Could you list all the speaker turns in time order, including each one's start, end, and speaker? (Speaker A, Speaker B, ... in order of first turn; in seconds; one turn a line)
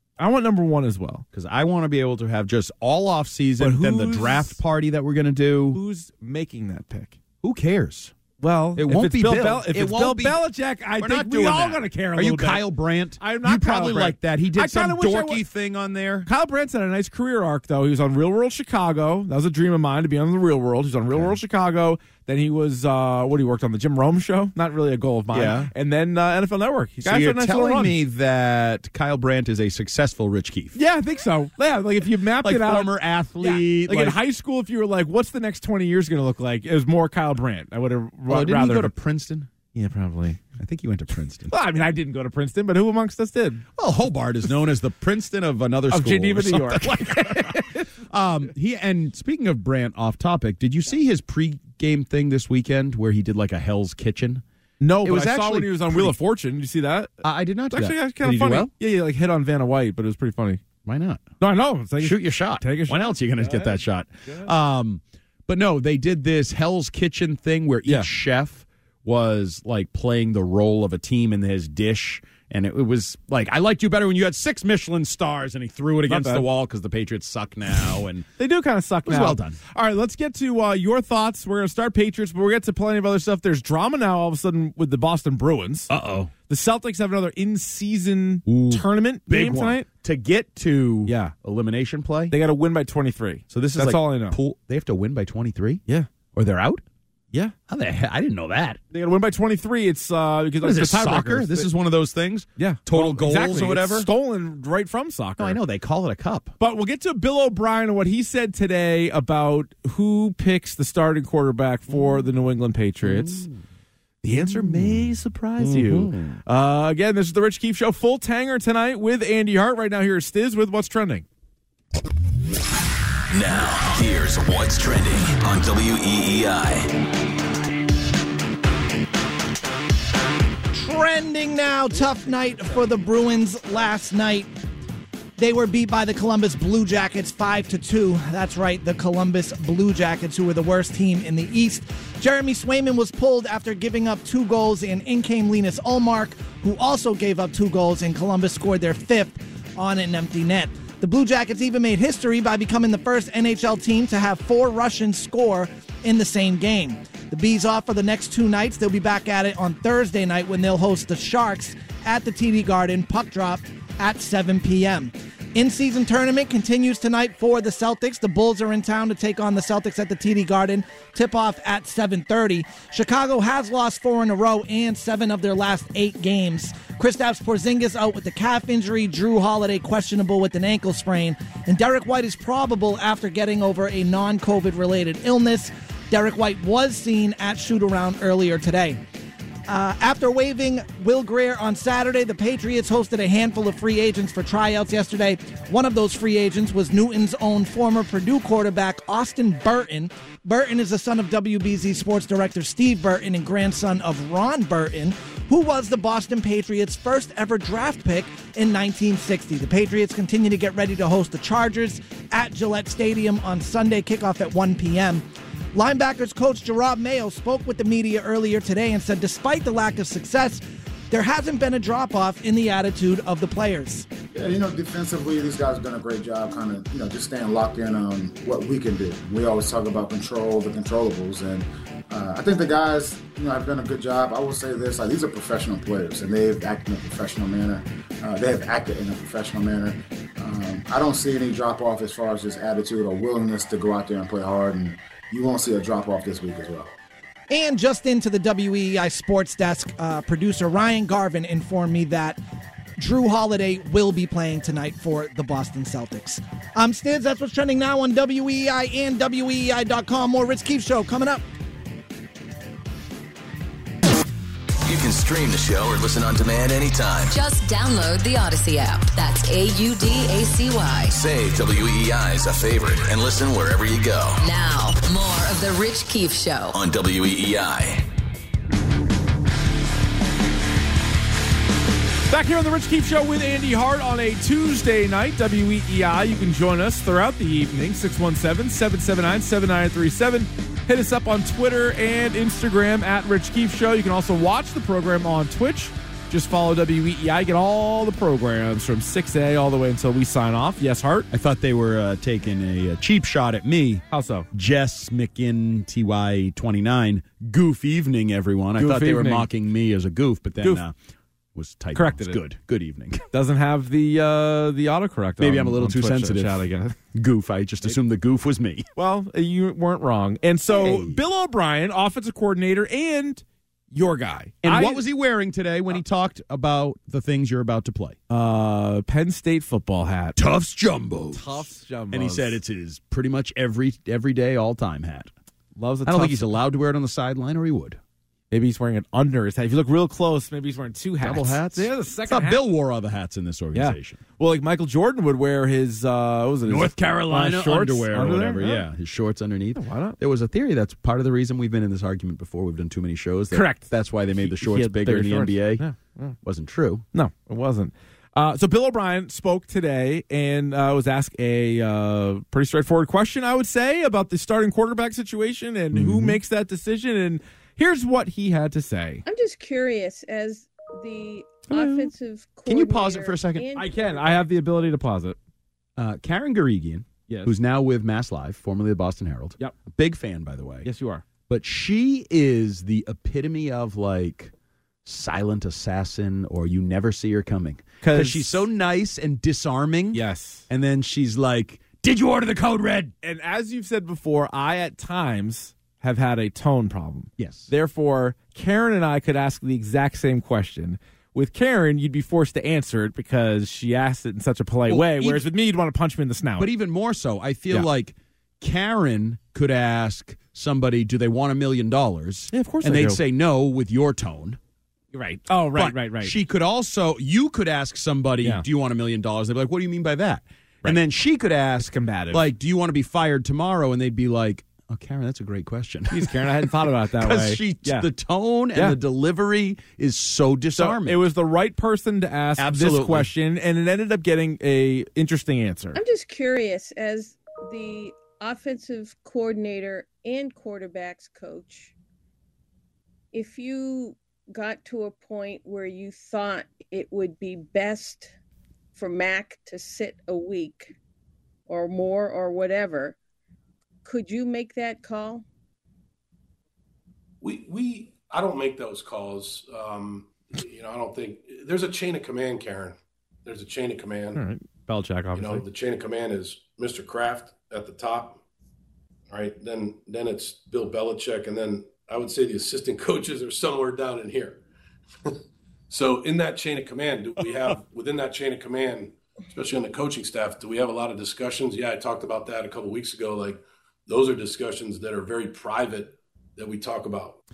Speaker A: 0.2-1.2
Speaker B: 1.3-5.8
Speaker A: 3.6-4.6
Speaker A: 5.7-7.2
Speaker B: 7.4-8.2
Speaker A: 8.4-12.7
Speaker B: 8.8-10.4
Speaker B: 11.0-16.3
Speaker A: 13.2-15.4
Speaker A: 16.3-28.0
Speaker B: 21.1-21.4
Speaker B: 25.3-25.7
Speaker B: 27.0-30.8
Speaker A: 30.8-38.9
Speaker B: 32.4-34.2
Speaker B: 38.3-39.5
Speaker A: 39.7-40.4
Speaker B: 40.6-41.5
Speaker A: 41.5-43.6
Speaker B: 43.8-54.4
Speaker A: 45.9-47.9
Speaker A: 54.8-57.1
Speaker B: 55.0-56.2
Speaker B: 57.2-58.7
Speaker A: 57.7-60.6
Speaker B: 60.9-61.3
Speaker A: 61.4-64.5
Speaker B: 62.0-78.3
Speaker A: 76.1-76.5
Speaker A: 78.4-85.9
Speaker B: 79.0-79.6
Speaker B: 85.9-86.3
Speaker A: 86.5-89.9
Speaker B: 88.5-92.4
Speaker A: 91.1-91.3
Speaker A: 92.3-94.4
Speaker B: 93.5-95.8
Speaker B: 96.3-96.8
Speaker B: 97.7-98.8
Speaker A: 98.9-101.7
Speaker B: 100.6-104.1
Speaker A: 102.6-105.6
Speaker B: 105.4-106.5
Speaker A: 106.6-113.5
Speaker B: 111.9-112.2
Speaker B: 113.0-113.6
Speaker B: 114.2-116.4
Speaker A: 114.2-121.2
Speaker C: 123.3-127.0
Speaker D: 130.7-134.5
Speaker D: 135.4-189.0
Speaker D: 189.7-224.1
Speaker E: 224.3-246.9
Speaker D: 247.5-252.4
Speaker D: 253.0-261.4
Speaker C: 264.9-267.4
Speaker F: 267.3-271.2
Speaker C: 271.1-274.4
Speaker F: 274.4-276.8
Speaker C: 276.7-278.1
Speaker A: 282.3-301.3
Speaker B: 301.3-310.9
Speaker A: 304.1-304.5
Speaker A: 308.8-309.5
Speaker B: 311.6-313.2
Speaker A: 311.9-312.4
Speaker A: 313.3-317.0
Speaker B: 315.4-318.9
Speaker A: 319.0-323.4
Speaker B: 320.7-321.2
Speaker A: 323.9-325.0
Speaker B: 324.6-328.2
Speaker A: 328.3-330.4
Speaker B: 330.4-335.3
Speaker A: 331.4-332.6
Speaker A: 335.8-336.6
Speaker B: 336.1-338.0
Speaker A: 338.5-342.6
Speaker B: 341.2-344.2
Speaker A: 343.7-348.9
Speaker B: 346.7-355.8
Speaker A: 349.8-350.2
Speaker A: 353.5-356.4
Speaker B: 356.4-357.1
Speaker A: 357.1-369.2
Speaker B: 365.9-366.4
Speaker G: 369.3-374.5
Speaker A: 371.7-372.1
Speaker B: 372.7-373.7
Speaker A: 373.8-375.4
Speaker B: 376.0-380.9
Speaker A: 377.3-377.5
Speaker A: 380.8-381.2
Speaker B: 381.5-384.5
Speaker B: 385.1-393.1
Speaker A: 388.0-388.6
Speaker A: 390.1-390.6
Speaker A: 393.2-406.7
Speaker B: 397.4-397.7
Speaker B: 404.9-405.5
Speaker B: 406.6-414.6
Speaker A: 412.5-413.2
Speaker A: 415.1-416.4
Speaker B: 415.7-431.2
Speaker A: 421.8-422.4
Speaker A: 426.1-428.1
Speaker A: 430.8-436.0
Speaker B: 432.6-433.3
Speaker G: 435.9-441.9
Speaker G: 443.3-448.3
Speaker G: 448.9-450.9
Speaker G: 451.7-453.2
Speaker G: 454.1-455.4
Speaker H: 457.4-464.4
Speaker A: 464.3-465.6
Speaker H: 465.4-468.4
Speaker H: 469.3-474.6
Speaker H: 475.9-487.4